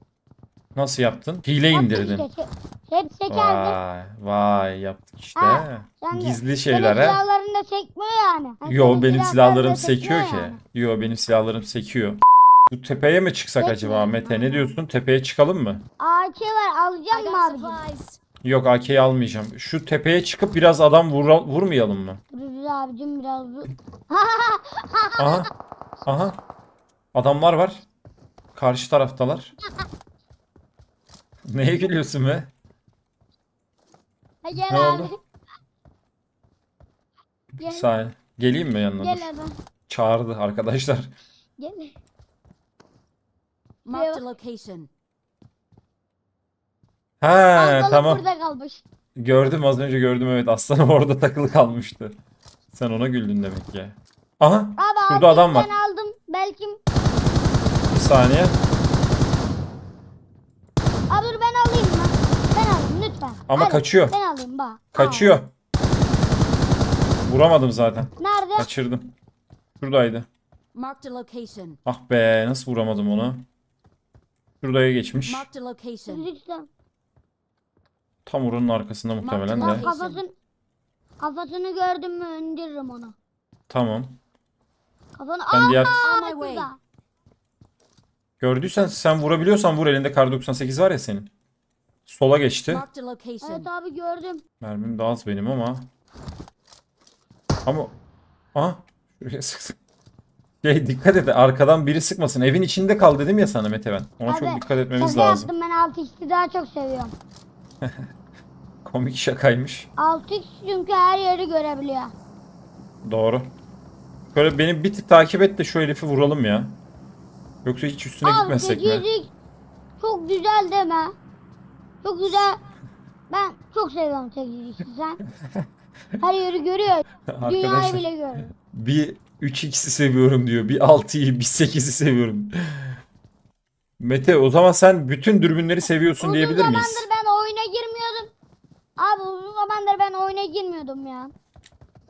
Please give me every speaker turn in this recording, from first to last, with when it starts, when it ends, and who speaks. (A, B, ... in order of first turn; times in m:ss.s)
0:00.7-0:02.3 A
0:01.7-0:03.8 B
0:03.3-0:07.2 A
0:05.4-0:10.6 B
0:08.6-0:15.8 A
0:13.6-0:14.7 B
0:16.0-0:17.8 B
0:17.1-0:18.2 C
0:18.4-0:22.2 A
0:22.3-0:25.4 B
0:25.2-0:25.5 A
0:26.0-0:26.4 A
0:27.1-0:27.8 A
0:28.5-0:29.5 A
0:31.4-0:32.5 A
0:34.4-0:35.1 B
0:34.7-0:35.1 A
0:37.6-0:37.9 B
0:37.6-0:39.3 A
0:39.0-0:39.5 B
0:39.9-0:41.1 A
0:41.6-0:41.9 B
0:43.8-0:44.9 C
0:43.9-0:44.2 B
0:47.2-0:48.2 A
0:47.5-0:48.8 B
0:49.2-0:52.2 A
0:52.7-0:55.7 A
0:54.8-0:56.8 B
0:57.9-0:58.5 A
1:01.1-1:05.4 B
1:03.5-1:04.1 A
1:04.9-1:05.5 A
1:07.2-1:09.1 A
1:08.2-1:08.7 B
1:09.8-1:10.3 A
1:10.7-1:11.8 C
1:11.8-1:13.4 A
1:14.6-1:15.5 A
1:15.2-1:16.2 C
1:16.0-1:16.7 B
1:18.2-1:19.9 A
1:19.2-1:20.2 C
1:19.6-1:20.3 B
1:21.2-1:23.1 B
1:23.7-1:24.2 A
1:25.1-1:26.8 B
1:25.5-1:26.1 A
1:26.0-1:26.7 C
1:28.4-1:31.3 A
1:32.0-1:32.8 A
1:32.7-1:33.7 C
1:33.4-1:34.4 B
1:34.6-1:35.8 A
1:37.6-1:37.9 A
1:38.5-1:39.8 A
1:40.6-1:45.5 A
1:44.2-1:47.1 B
1:47.8-1:48.1 A
1:48.8-1:49.9 A
1:50.0-1:52.1 B
1:53.0-1:53.5 A
1:54.3-1:56.8 A
1:57.6-1:59.0 A
1:58.2-1:59.3 B
2:00.0-2:01.1 B
2:02.0-2:02.6 B
2:03.3-2:05.2 B
2:06.2-2:08.5 B
2:07.3-2:13.0 A
2:14.0-2:17.1 A
2:16.2-2:18.3 B
2:19.0-2:21.3 B